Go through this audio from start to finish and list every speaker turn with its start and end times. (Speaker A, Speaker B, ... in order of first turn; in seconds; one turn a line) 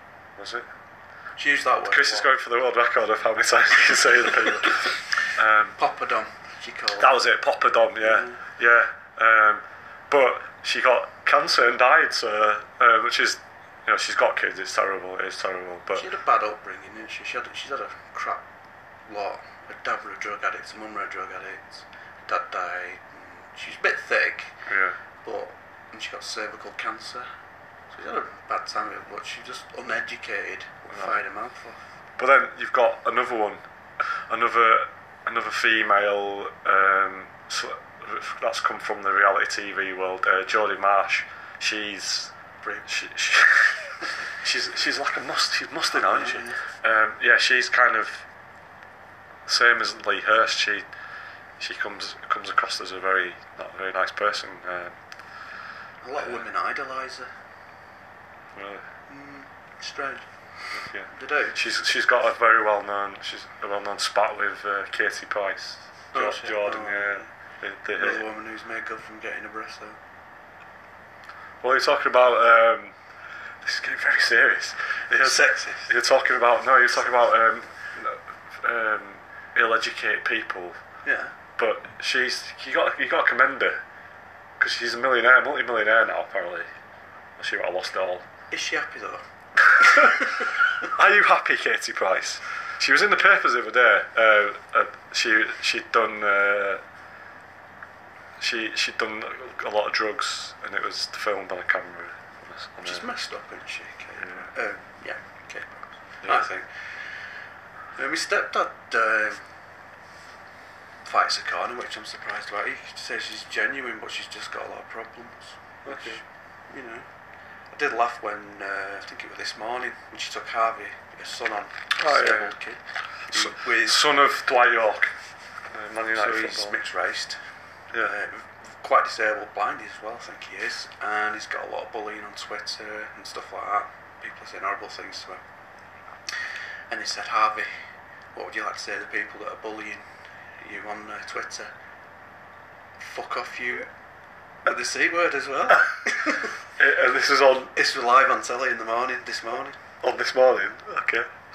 Speaker A: 0.4-0.7
Speaker B: 1.4-2.3
Speaker A: 1.9-5.8
Speaker B: 5.8-7.1
Speaker A: 7.0-16.1
Speaker B: 8.0-8.4
Speaker B: 15.9-18.4
Speaker B: 19.1-24.6
Speaker A: 24.7-25.0
Speaker B: 25.2-27.3
Speaker B: 27.9-31.8
Speaker A: 32.2-33.6
Speaker A: 34.3-42.3
Speaker A: 42.9-48.2
Speaker B: 45.9-46.6
Speaker A: 49.5-50.9
Speaker A: 51.6-54.9
Speaker B: 56.0-57.3
Speaker A: 58.6-58.8
Speaker B: 59.1-60.3
Speaker A: 60.8-68.2
Speaker B: 61.1-61.6
Speaker B: 66.1-67.3
Speaker B: 68.0-70.0
Speaker A: 71.6-72.9
Speaker A: 73.6-80.8
Speaker B: 75.1-75.9
Speaker B: 81.0-81.3
Speaker A: 81.6-83.8
Speaker A: 84.6-86.7
Speaker A: 87.4-88.3
Speaker B: 88.5-89.2
Speaker A: 89.8-90.2
Speaker A: 90.8-96.8
Speaker A: 98.4-103.1
Speaker B: 102.8-106.7
Speaker A: 104.2-104.5
Speaker B: 108.0-109.4
Speaker B: 111.0-117.1
Speaker A: 115.8-116.2
Speaker B: 117.7-122.8
Speaker A: 122.0-122.5
Speaker B: 123.3-124.1
Speaker A: 123.3-125.1
Speaker A: 125.7-126.8
Speaker B: 126.2-127.4
Speaker B: 128.0-135.4
Speaker B: 136.9-137.7
Speaker B: 138.3-140.0
Speaker B: 140.6-141.7
Speaker B: 143.0-143.9
Speaker B: 144.7-146.5
Speaker A: 146.8-147.7
Speaker B: 147.8-149.8
Speaker A: 150.0-151.3